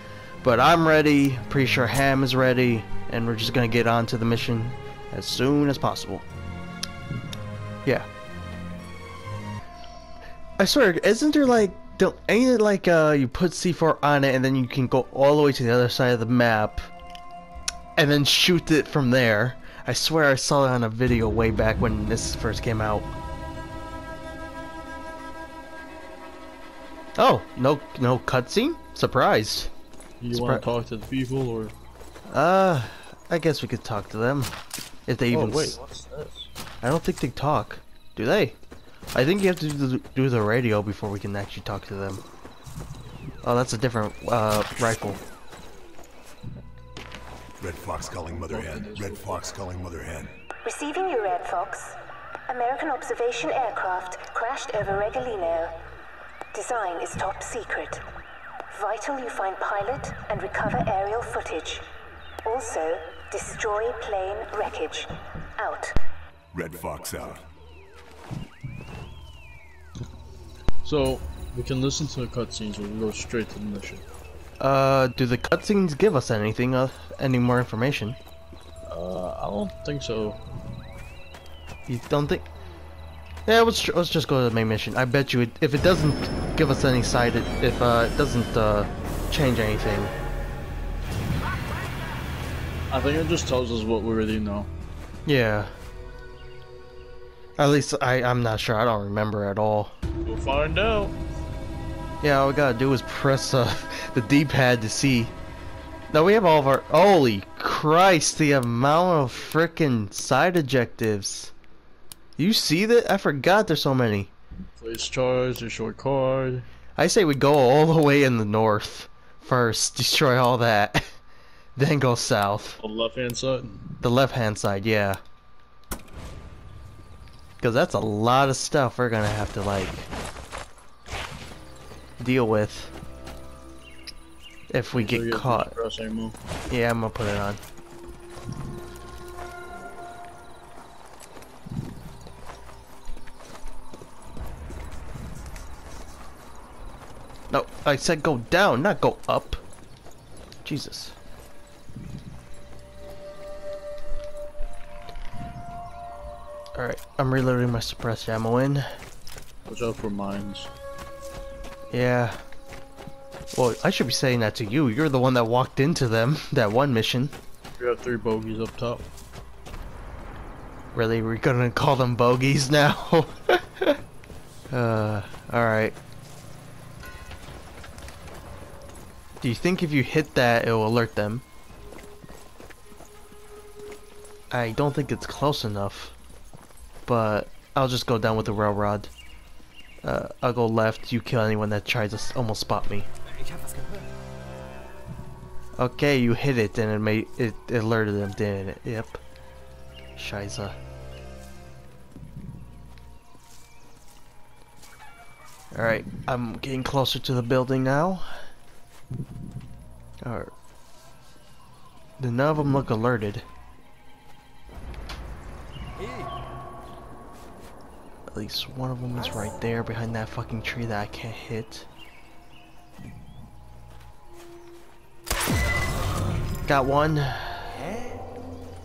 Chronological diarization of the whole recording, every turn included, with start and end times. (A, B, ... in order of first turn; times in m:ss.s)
0:00.4-0:06.3 A
0:10.6-0:16.9 A
0:18.0-0:23.1 A
0:27.2-0:29.7 A
0:30.2-0:31.7 B
0:30.3-0:30.6 A
0:32.3-0:34.5 A
0:35.1-0:35.8 A
0:35.3-0:36.5 B
0:36.8-0:38.6 A
0:39.1-0:42.2 A
0:43.4-0:45.2 A
0:47.6-0:50.3 C
0:48.3-0:49.5 B
0:50.6-0:55.8 D
0:56.5-0:58.1 D
0:58.7-1:01.9 D
1:02.4-1:06.0 D
1:06.5-1:07.4 C
1:10.8-1:14.0 B
1:14.6-1:18.2 A
1:18.9-1:20.4 B
1:21.9-1:22.5 A
1:23.5-1:30.1 A
1:32.9-1:34.7 B
1:35.3-1:35.7 A
1:37.6-1:39.9 A
1:40.2-1:41.2 B
1:42.2-1:45.3 A
1:46.1-1:51.5 A
1:52.4-1:54.3 A
1:54.8-1:56.7 B
1:57.0-2:01.1 A
2:01.8-2:02.8 A
2:02.8-2:03.8 B
2:04.0-2:05.2 A
2:07.6-2:10.1 A
2:12.2-2:12.9 A
2:14.7-2:15.7 A
2:14.9-2:16.4 B
2:16.7-2:17.6 A
2:27.5-2:29.6 A
2:30.6-2:31.2 A
2:36.8-2:38.9 A
2:39.7-2:40.7 B
2:41.9-2:42.4 A
2:43.5-2:47.3 A
2:47.8-2:49.1 B
2:50.9-2:54.0 A
2:54.7-2:56.0 A
2:59.4-3:01.4 A
3:04.5-3:06.2 A
3:07.1-3:09.1 A
3:10.0-3:13.1 A
3:15.8-3:19.2 A
3:20.2-3:20.8 A
3:25.7-3:28.3 A
3:30.2-3:30.5 A
3:32.2-3:33.4 A
3:38.3-3:41.9 A
3:46.7-3:47.8 A